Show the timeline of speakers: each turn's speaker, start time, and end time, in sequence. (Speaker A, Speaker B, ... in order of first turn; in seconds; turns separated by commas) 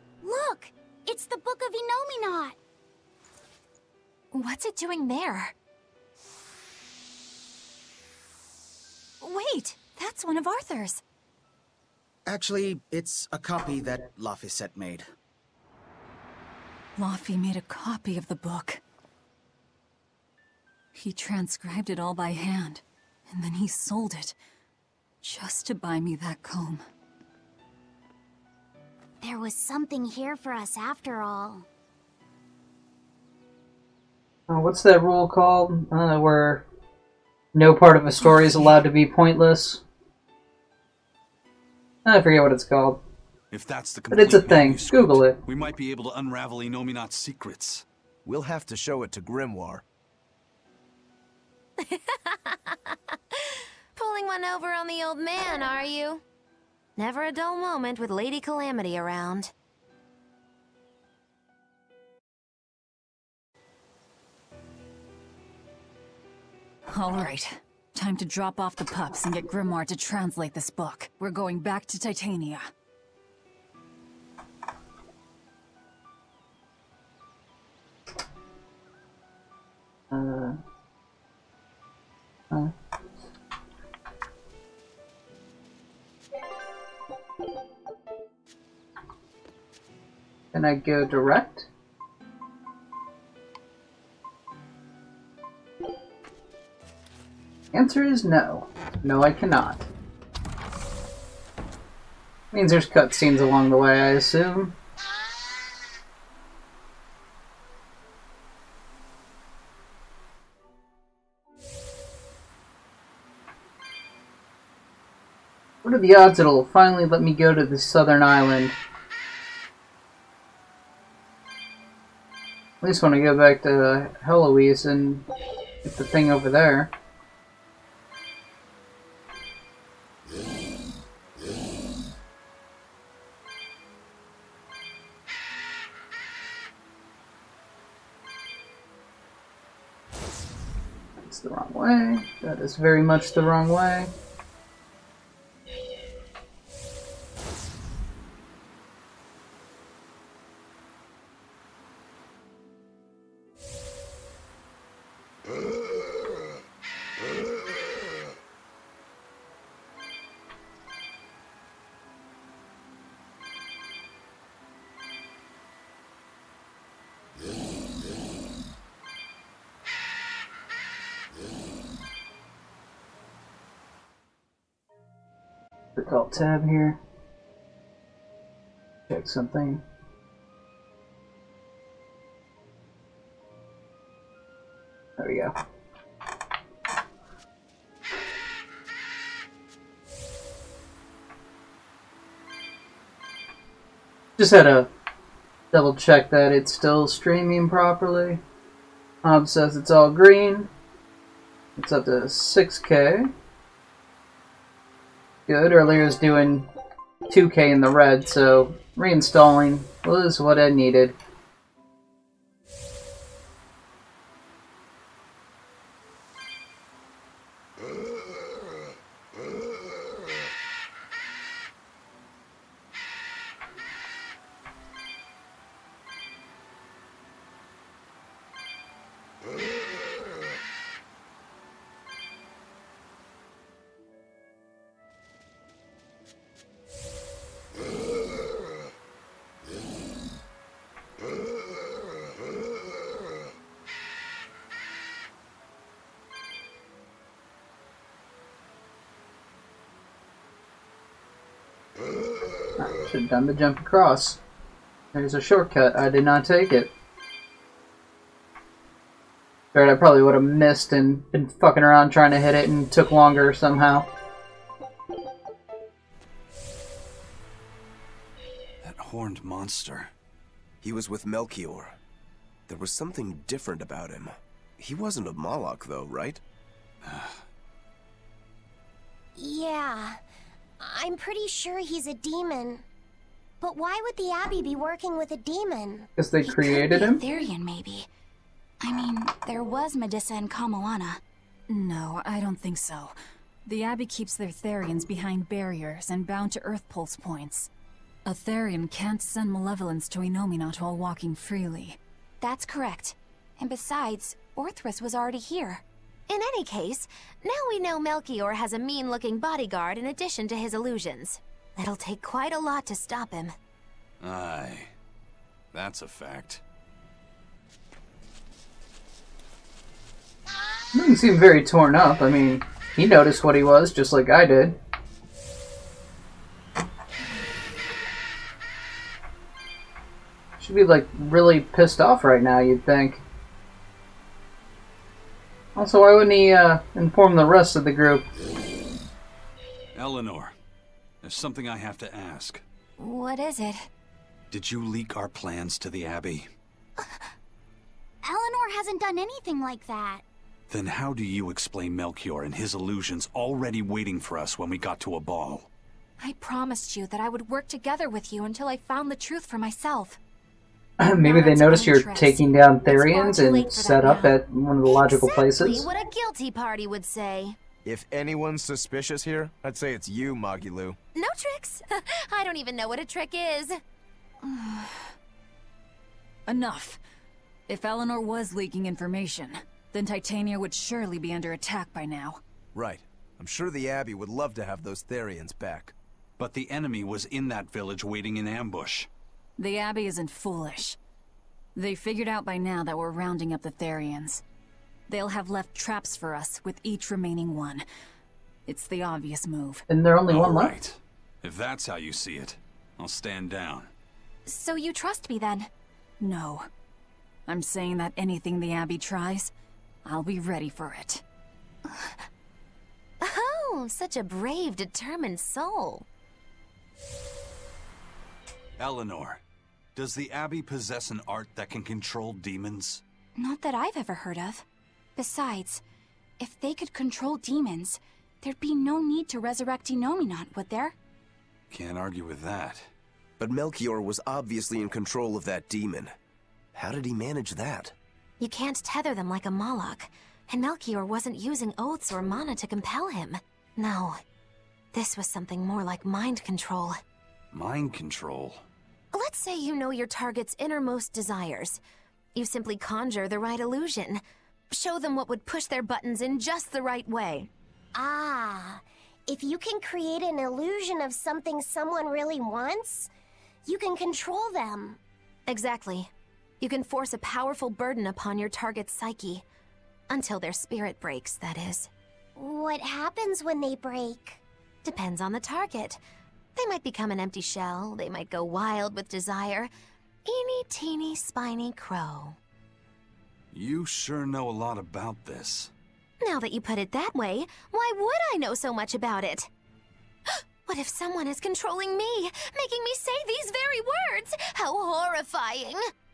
Speaker A: 0.2-2.6, Speaker B: 4.3-5.5, Speaker B: 9.2-11.0, Speaker C: 12.3-15.1, Speaker D: 17.0-18.8, Speaker D: 20.9-24.4, Speaker D: 25.2-26.8, Speaker A: 29.2-31.6, Speaker E: 34.5-36.6, Speaker E: 37.5-39.8, Speaker E: 42.0-43.0, Speaker F: 43.5-47.9, Speaker E: 44.1-45.4, Speaker G: 48.2-49.8, Speaker H: 51.8-52.9, Speaker H: 54.0-56.2, Speaker H: 57.0-59.5, Speaker D: 66.9-72.7, Speaker E: 80.1-80.6, Speaker E: 90.5-91.7, Speaker E: 97.7-99.9, Speaker E: 102.5-104.7, Speaker E: 115.8-118.8, Speaker E: 122.8-125.2, Speaker E: 125.8-126.9, Speaker E: 141.2-144.1, Speaker E: 176.0-177.0, Speaker E: 179.1-179.8, Speaker E: 185.2-185.5, Speaker E: 194.4-194.9, Speaker E: 195.7-198.4, Speaker E: 199.2-200.7, Speaker E: 201.8-203.3, Speaker E: 205.5-206.7, Speaker E: 207.3-211.2, Speaker E: 252.8-254.4, Speaker E: 255.1-256.9, Speaker E: 259.7-264.1, Speaker F: 268.8-270.1, Speaker G: 270.8-272.0, Speaker G: 272.7-276.4, Speaker F: 277.0-277.4, Speaker A: 279.4-280.2, Speaker A: 280.8-282.8, Speaker A: 283.6-286.1, Speaker E: 286.2-287.2, Speaker B: 286.4-288.1, Speaker B: 288.8-291.2, Speaker D: 291.7-297.7, Speaker D: 298.2-302.0, Speaker B: 302.4-305.8, Speaker H: 306.3-313.6, Speaker F: 314.2-314.9, Speaker F: 315.7-316.6, Speaker E: 320.9-324.8, Speaker E: 330.6-333.2, Speaker E: 335.8-338.3, Speaker F: 339.9-340.6, Speaker F: 341.2-342.6, Speaker B: 343.0-343.9, Speaker F: 344.5-346.5, Speaker A: 348.2-350.2, Speaker F: 350.7-355.7, Speaker B: 356.2-360.2, Speaker E: 361.0-365.9, Speaker B: 361.2-364.4, Speaker H: 364.9-367.6, Speaker G: 367.8-371.0, Speaker H: 371.1-373.8, Speaker D: 374.4-375.1, Speaker D: 376.5-377.0, Speaker D: 377.7-382.4, Speaker G: 382.7-385.9, Speaker F: 386.4-389.1, Speaker D: 389.6-391.0, Speaker D: 391.8-394.4, Speaker D: 395.1-397.9, Speaker D: 398.7-399.8, Speaker E: 399.9-400.8, Speaker F: 400.3-403.9, Speaker B: 404.5-405.7, Speaker D: 406.2-406.7, Speaker D: 407.5-409.5, Speaker D: 410.1-411.2, Speaker H: 413.2-416.0, Speaker F: 418.8-419.4, Speaker F: 419.9-423.0, Speaker B: 423.4-424.6, Speaker B: 425.2-425.8, Speaker B: 426.4-431.0, Speaker F: 431.7-432.9, Speaker G: 433.4-436.1, Speaker G: 436.7-437.9, Speaker H: 438.4-444.2, Speaker H: 444.9-447.0, Speaker F: 447.5-448.6, Speaker H: 449.1-451.8, Speaker H: 452.4-457.5, Speaker A: 457.9-463.1, Speaker A: 463.7-465.0, Speaker H: 465.5-466.1, Speaker H: 466.6-469.4, Speaker H: 470.1-471.9, Speaker A: 472.4-474.4, Speaker H: 474.8-476.0, Speaker H: 476.6-479.7, Speaker H: 480.2-482.4, Speaker F: 483.5-485.7, Speaker H: 486.2-489.5, Speaker H: 490.7-495.8